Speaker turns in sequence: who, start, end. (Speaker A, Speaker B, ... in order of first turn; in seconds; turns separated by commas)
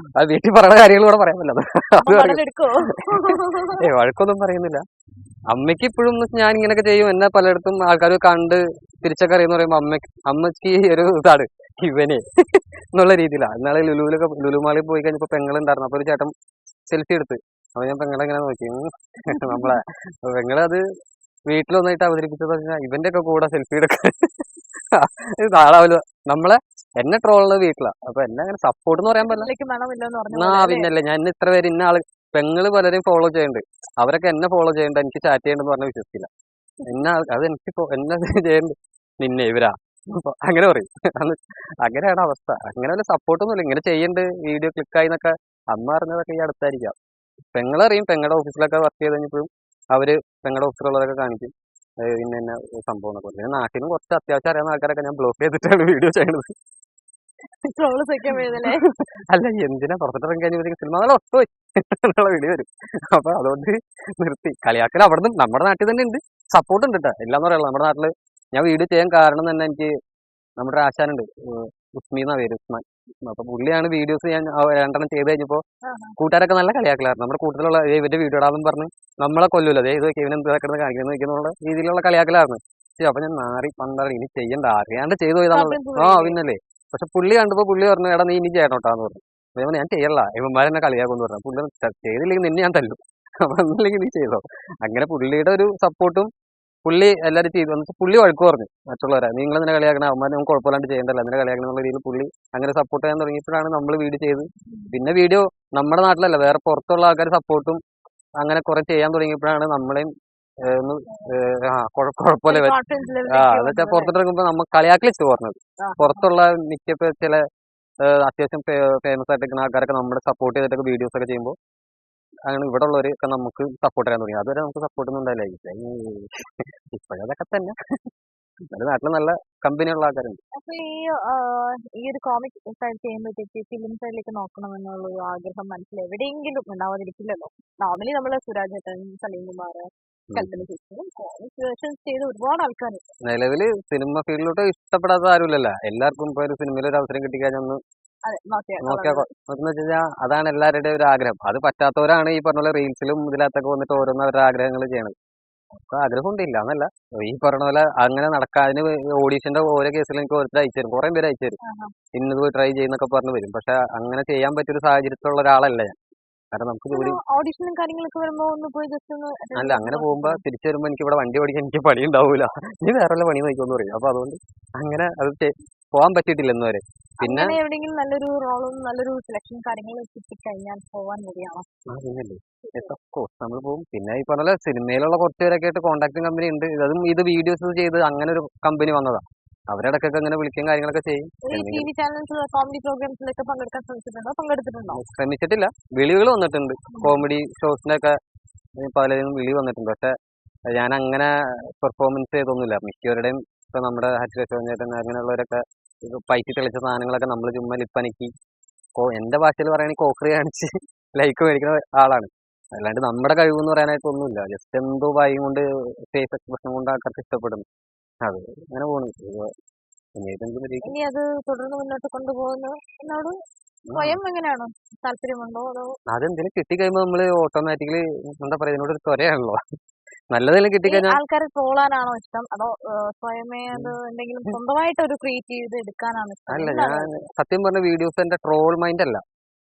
Speaker A: 0.2-2.4, Speaker B: 2.0-3.8, Speaker A: 3.1-4.8, Speaker A: 5.5-12.2, Speaker A: 12.9-16.3, Speaker A: 16.9-18.8, Speaker B: 19.3-19.8, Speaker A: 19.4-20.8, Speaker A: 21.5-24.2, Speaker A: 24.9-29.5, Speaker B: 29.2-30.9, Speaker A: 30.3-36.3, Speaker A: 36.9-46.9, Speaker A: 47.5-51.5, Speaker A: 52.0-56.5, Speaker B: 57.7-58.8, Speaker A: 58.6-69.9, Speaker A: 70.6-75.6, Speaker B: 75.8-76.1, Speaker A: 76.2-96.3, Speaker B: 85.5-86.4, Speaker A: 96.8-107.8, Speaker A: 108.4-110.1, Speaker A: 110.7-112.8, Speaker B: 111.1-111.3, Speaker B: 112.5-114.1, Speaker A: 113.3-117.4, Speaker B: 115.8-116.3, Speaker A: 118.0-121.5, Speaker A: 122.5-127.7, Speaker A: 128.7-130.4, Speaker B: 130.6-143.0, Speaker A: 140.3-140.6, Speaker A: 143.2-147.8, Speaker B: 148.2-149.3, Speaker A: 148.8-155.1, Speaker A: 155.8-161.6, Speaker B: 161.6-161.9, Speaker A: 162.1-165.9, Speaker A: 166.5-167.2, Speaker B: 166.9-170.4, Speaker A: 169.6-177.6, Speaker B: 177.2-181.7, Speaker A: 181.9-191.9, Speaker B: 182.6-182.9, Speaker B: 191.4-195.0, Speaker A: 194.9-198.1, Speaker B: 196.9-197.2, Speaker A: 198.8-200.1, Speaker A: 200.7-208.3, Speaker A: 209.0-217.6, Speaker A: 218.2-219.5, Speaker A: 220.2-220.9, Speaker B: 220.8-223.3, Speaker A: 223.9-224.2, Speaker B: 223.9-225.9, Speaker A: 226.1-229.6, Speaker A: 230.3-231.2, Speaker B: 230.8-237.2, Speaker A: 236.5-239.2